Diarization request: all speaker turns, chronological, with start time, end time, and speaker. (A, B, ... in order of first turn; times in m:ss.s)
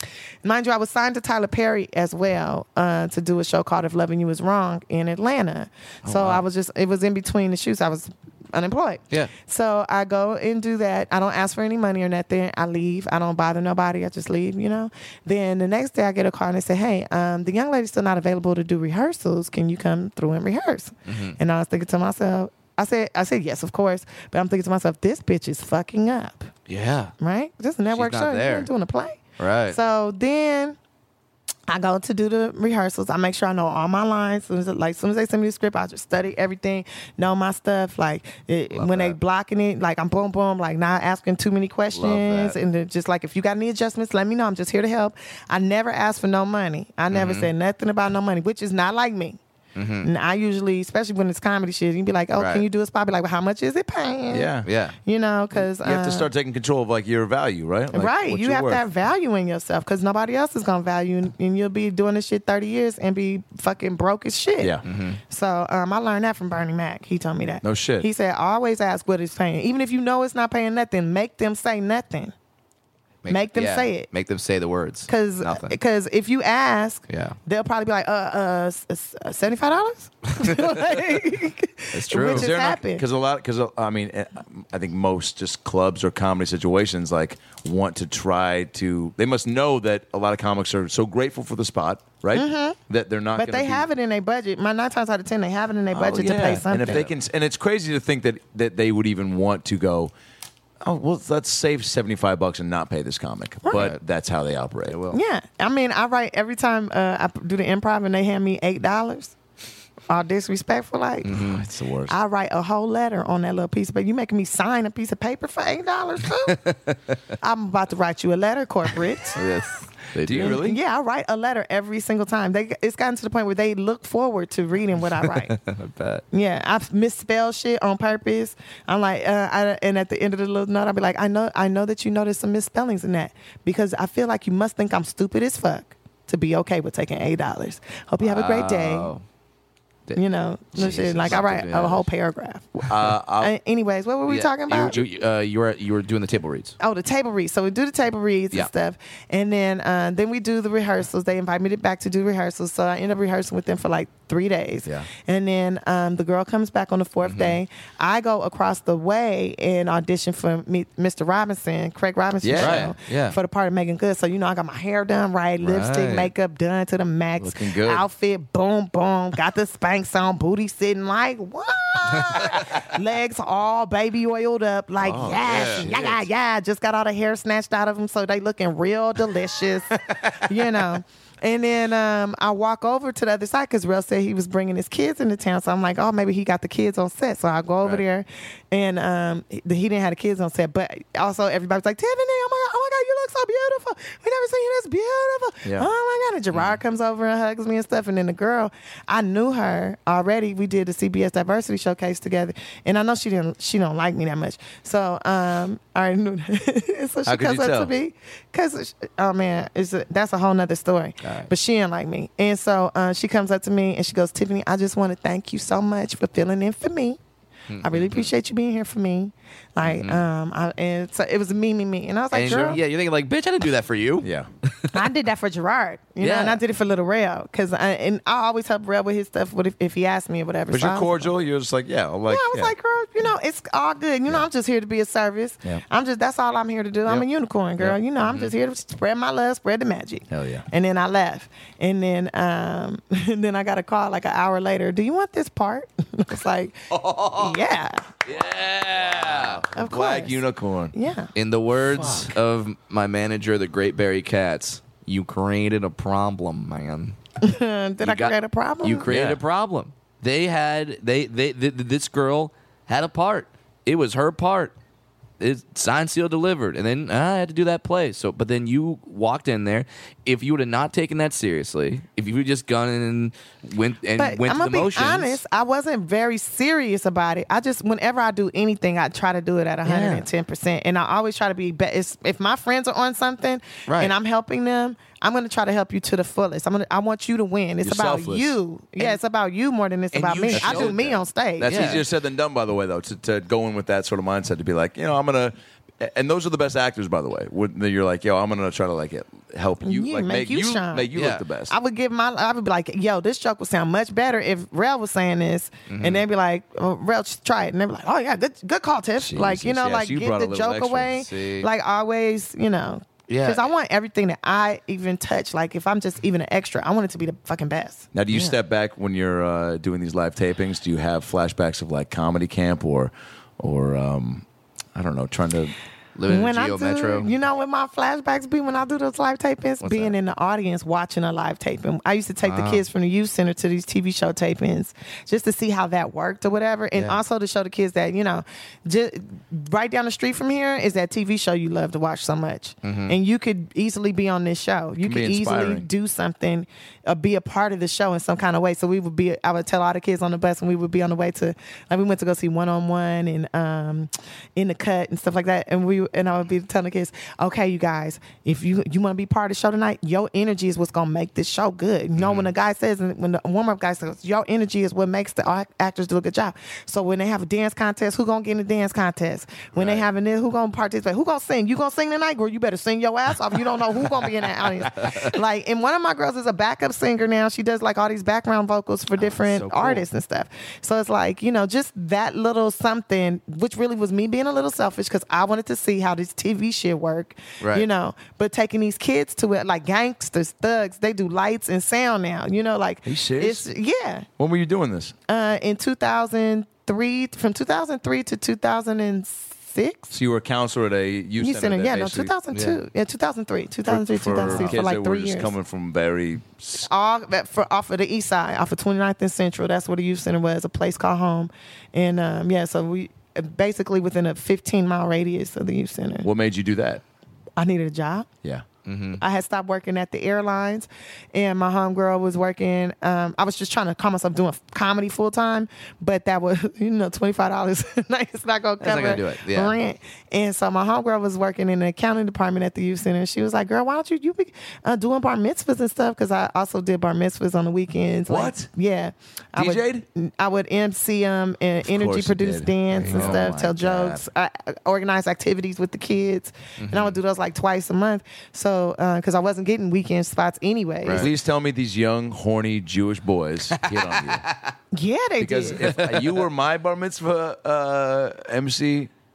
0:00.4-0:26.5 A
0:06.0-0:06.4 B
0:21.1-0:21.4 B
0:26.7-0:27.1 B
0:27.2-0:30.8 A
0:27.9-0:28.7 B
0:29.4-0:29.8 B
0:31.7-0:49.4 A
0:38.7-0:39.2 B
0:41.9-0:42.6 B
0:47.1-0:47.5 B
0:49.8-0:50.1 B
0:50.0-0:54.5 A
0:52.3-0:52.7 B
0:54.3-0:54.7 C
0:54.6-0:55.0 B
0:55.0-0:56.3 A
0:55.5-0:58.8 C
0:57.9-1:04.8 A
1:04.6-1:04.8 C
1:04.8-1:05.2 B
1:05.3-1:12.3 A
1:07.6-1:08.1 C
1:13.2-1:15.8 B
1:13.3-1:14.1 A
1:15.1-1:23.0 A
1:17.1-1:17.4 B
1:20.4-1:20.8 B
1:21.9-1:22.5 B
1:22.2-1:33.9 C
1:32.3-1:32.8 A
1:33.4-1:37.1 A
1:35.9-1:40.1 C
1:40.8-1:45.0 C
1:43.7-1:44.0 B
1:44.9-1:45.2 B
1:45.1-1:49.4 A
1:50.1-1:51.4 A
1:51.2-1:51.6 B
1:51.2-1:52.2 C
1:52.1-1:56.6 A
1:56.4-1:57.2 B
1:57.4-1:59.4 A
1:59.4-2:00.6 B
2:00.2-2:00.8 C
2:00.4-2:05.6 A
2:05.2-2:06.2 B
2:06.3-2:19.1 A
2:18.2-2:19.2 B
2:20.2-2:25.0 A
2:20.7-2:22.1 B
2:22.8-2:23.5 C
2:24.3-2:26.8 B
2:26.8-3:37.2 A
2:37.2-2:37.6 B
2:42.4-2:42.9 C
2:42.6-2:43.4 B
2:45.6-2:46.3 B
2:47.4-2:48.1 C
2:52.1-2:52.9 B
2:55.0-2:56.2 C
2:55.4-2:56.1 B
3:16.5-3:16.8 B
3:27.3-3:27.9 C
3:31.2-3:31.5 B
3:37.7-3:38.3 B
3:37.8-3:42.8 A
3:39.8-3:40.2 B
3:42.3-3:45.0 B
3:44.2-3:44.5 C
3:44.9-3:51.3 A
3:46.2-3:46.6 B
3:50.7-3:52.7 C
3:52.3-4:08.1 A
3:58.2-3:58.5 B
4:00.3-4:00.7 C
4:06.9-4:07.6 B
4:08.2-4:09.6 B
4:09.0-4:11.0 C
4:09.8-4:10.4 A
4:10.9-4:11.3 A
4:11.4-4:17.2 B
4:11.9-4:12.3 C
4:17.4-4:19.1 A
4:18.0-4:24.7 B
4:19.1-4:19.4 C
4:25.4-4:35.4 B
4:34.2-4:52.0 A
4:39.8-4:40.3 B
4:43.9-4:44.2 B
4:47.8-4:48.6 C
4:50.1-4:52.0 B
4:50.5-5:01.7 C
4:59.8-5:01.1 A
5:01.2-5:01.4 B
5:01.7-5:18.1 A
5:05.9-5:06.3 B
5:09.2-5:11.2 C
5:11.1-5:11.7 B
5:13.3-5:13.7 B
5:18.1-5:25.8 C
5:18.3-5:18.6 B
5:26.2-5:27.3 B
5:26.3-6:34.3 A
5:29.8-5:30.2 B
5:32.4-5:32.8 B
5:42.8-5:43.2 B
5:45.0-5:45.9 C
6:02.2-6:02.5 B
6:09.8-6:10.0 B
6:15.0-6:15.3 B
6:19.2-6:20.0 B
6:27.6-6:27.9 B
6:33.1-6:33.7 C
6:34.4-6:35.2 C
6:35.3-6:40.1 A
6:40.1-6:42.3 C
6:41.4-6:45.5 A
6:42.5-6:42.8 B
6:43.9-6:46.9 C
6:44.4-6:44.8 B
6:46.8-6:56.3 A
6:56.2-6:57.0 C
6:57.6-6:58.3 A
6:58.8-6:59.2 B
6:59.2-7:31.3 A
7:08.8-7:09.8 B
7:18.3-7:18.7 C
7:19.6-7:20.0 C
7:21.8-7:24.2 C
7:23.0-7:23.6 B
7:26.8-7:27.2 B
7:31.0-7:31.3 B
7:31.1-7:34.5 C
7:33.7-7:34.8 B
7:34.9-7:35.9 A
7:35.4-7:39.1 C
7:35.8-7:36.4 B